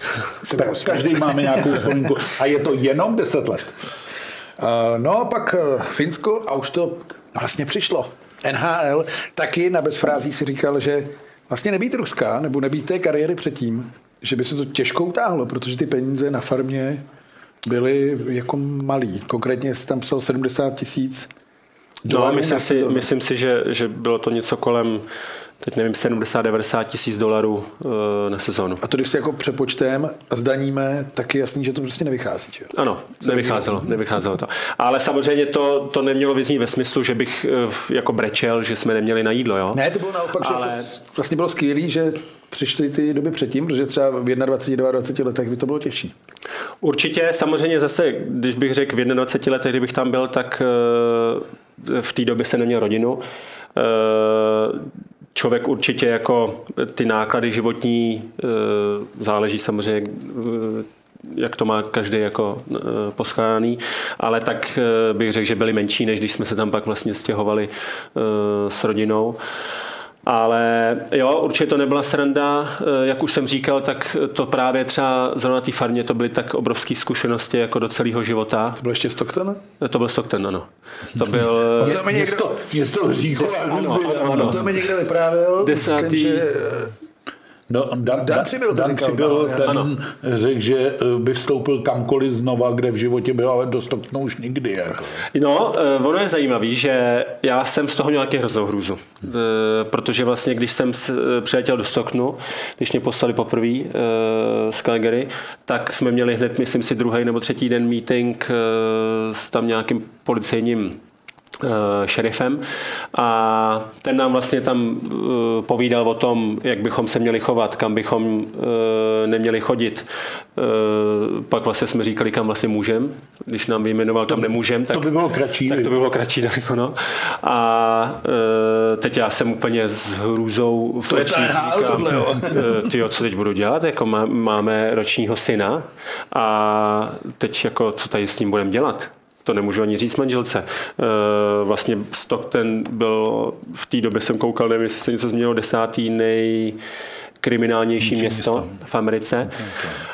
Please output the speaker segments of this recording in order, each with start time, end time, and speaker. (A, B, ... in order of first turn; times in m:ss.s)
0:00.4-0:01.6 A
0:00.5-0:03.9 B
0:04.6-0:17.0 A
0:17.7-0:21.3 A
0:22.1-0:23.1 A
0:22.1-0:25.0 C
0:25.6-0:28.8 C
0:28.8-0:33.9 A
0:32.7-0:39.8 C
0:39.7-0:46.1 A
0:40.4-0:40.9 C
0:46.8-0:53.2 C
0:53.8-1:09.4 C
1:10.2-1:18.8 C
1:18.8-1:19.6 A
1:19.8-1:22.0 C
1:21.3-1:24.8 B
1:21.8-1:22.6 A
1:23.5-1:26.9 A
1:23.6-1:24.7 C
1:25.6-1:26.4 C
1:27.7-1:35.2 B
1:28.2-1:29.8 A
1:35.3-1:51.0 C
1:51.6-2:05.2 C
2:04.3-2:06.0 B
2:05.7-2:26.8 C
2:11.1-2:12.9 A
2:27.4-2:29.6 C
2:28.0-2:28.8 B
2:29.5-2:30.0 B